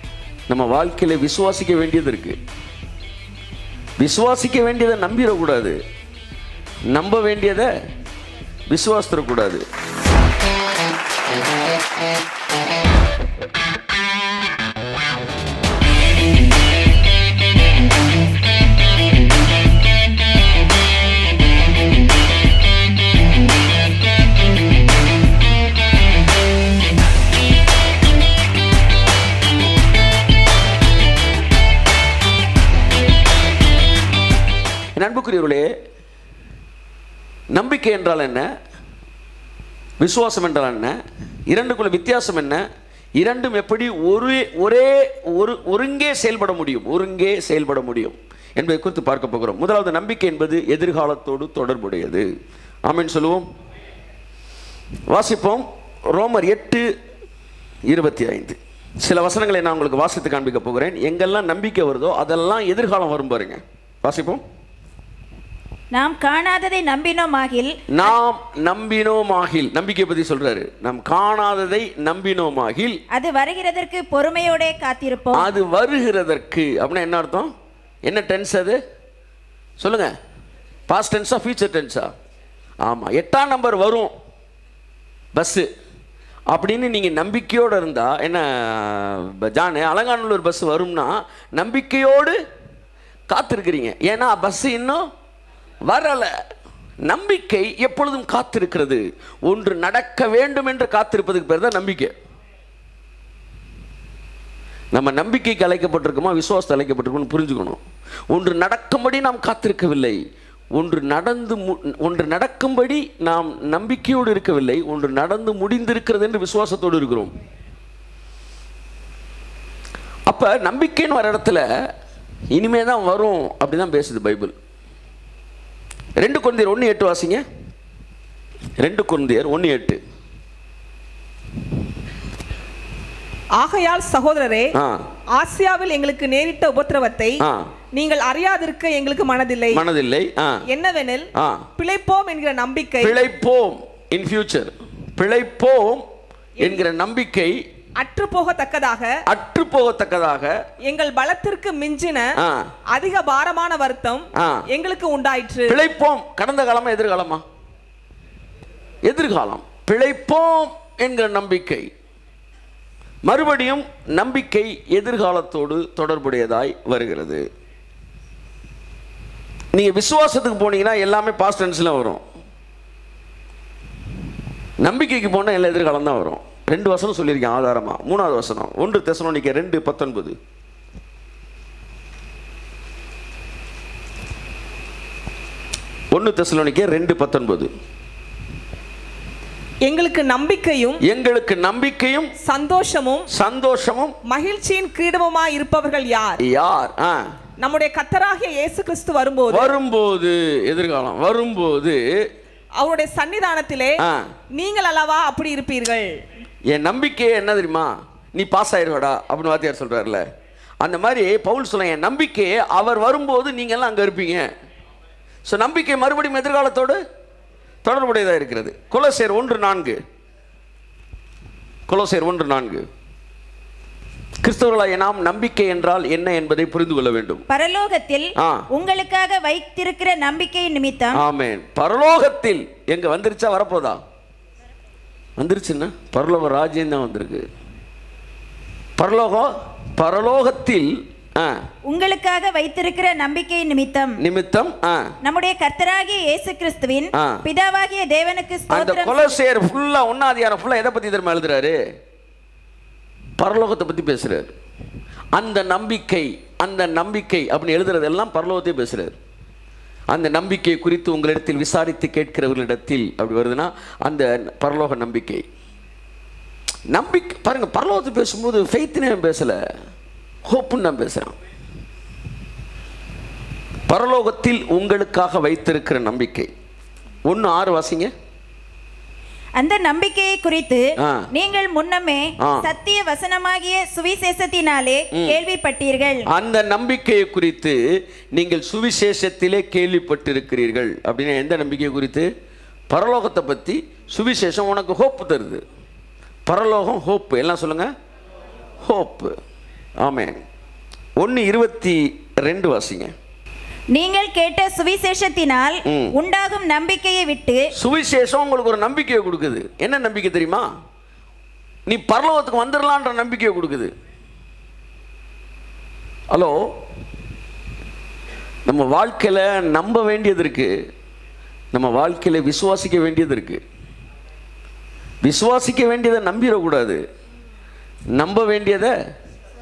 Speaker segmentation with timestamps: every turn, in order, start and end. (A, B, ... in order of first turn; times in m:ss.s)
0:00.5-0:02.4 A
0:04.0-0:05.8 A
0:06.9-0:07.7 A
0:08.7-0:09.6 A
0:35.0-0:35.7 A
0:37.5-0:38.5 A
0:40.0-0:40.9 A
0:41.5-0:42.6 A
0:43.2-0:52.3 A
0:52.8-0:53.5 A
0:55.1-0:56.8 A
0:57.9-1:04.4 A
1:05.9-1:08.1 B
1:07.9-1:13.0 A
1:13.1-1:15.5 B
1:15.3-1:17.5 A
1:18.0-1:18.8 A
1:19.8-1:20.1 A
1:20.9-1:22.1 A
1:22.8-1:24.1 A
1:25.3-1:25.6 A
1:26.5-1:32.4 A
1:33.3-1:35.0 A
1:35.9-1:36.3 A
1:37.0-1:42.1 A
1:44.9-1:47.8 A
1:48.3-1:50.2 A
1:50.7-1:57.3 A
2:00.3-2:01.6 A
2:02.5-2:04.5 A
2:06.2-2:07.4 A
2:08.8-2:10.0 A
2:13.6-2:14.7 C
2:15.4-2:17.4 C
2:17.9-2:19.8 C
2:19.7-2:20.6 A
2:20.7-2:23.2 C
2:21.4-2:21.7 A
2:23.0-2:26.0 A
2:26.6-2:27.5 A
2:28.0-2:29.1 C
2:29.3-2:30.5 A
2:30.8-2:32.3 C
2:32.4-2:32.7 A
2:32.9-2:35.8 C
2:34.4-2:34.6 A
2:35.7-2:37.4 A
2:39.0-2:41.9 A
2:43.2-2:47.4 A
2:49.7-2:52.2 A
2:54.8-3:00.4 A
3:06.1-3:07.7 A
3:09.8-3:11.0 C
3:11.0-3:12.3 A
3:12.4-3:13.3 C
3:13.3-3:14.2 A
3:14.2-3:16.4 C
3:16.4-3:17.2 A
3:17.6-3:19.7 C
3:19.5-3:22.0 A
3:22.8-3:24.0 C
3:24.5-3:26.1 C
3:26.7-3:30.2 A
3:30.8-3:34.5 A
3:35.4-3:37.0 A
3:37.8-3:40.0 A
3:41.9-3:42.8 A
3:44.4-3:47.4 A
3:47.5-3:51.2 B
3:48.4-3:48.6 A
3:51.1-3:54.0 A
3:55.4-3:57.5 A
3:59.0-4:01.5 A
4:01.9-4:04.2 B
4:04.2-4:05.1 A
4:05.2-4:09.4 B
4:07.1-4:07.4 A
4:08.7-4:11.8 A
4:13.4-4:14.5 A
4:15.3-4:19.1 A
4:20.1-4:25.4 A
4:26.9-4:29.6 A
4:30.5-4:31.3 A
4:33.9-4:36.5 A
4:37.2-4:38.1 A
4:39.6-4:46.2 B
4:41.0-4:41.3 A
4:42.4-4:42.7 A
4:46.3-4:47.8 A
4:48.3-4:52.3 A
4:52.9-4:55.6 A
4:56.4-4:57.9 A
4:58.8-4:59.3 A
5:00.0-5:00.4 A
5:01.2-5:03.1 A
5:03.9-5:07.6 B
5:05.9-5:06.1 A
5:07.7-5:10.7 A
5:11.9-5:13.9 A
5:18.6-5:20.7 A
5:21.7-5:23.6 A
5:25.2-5:27.0 A
5:28.2-5:28.9 A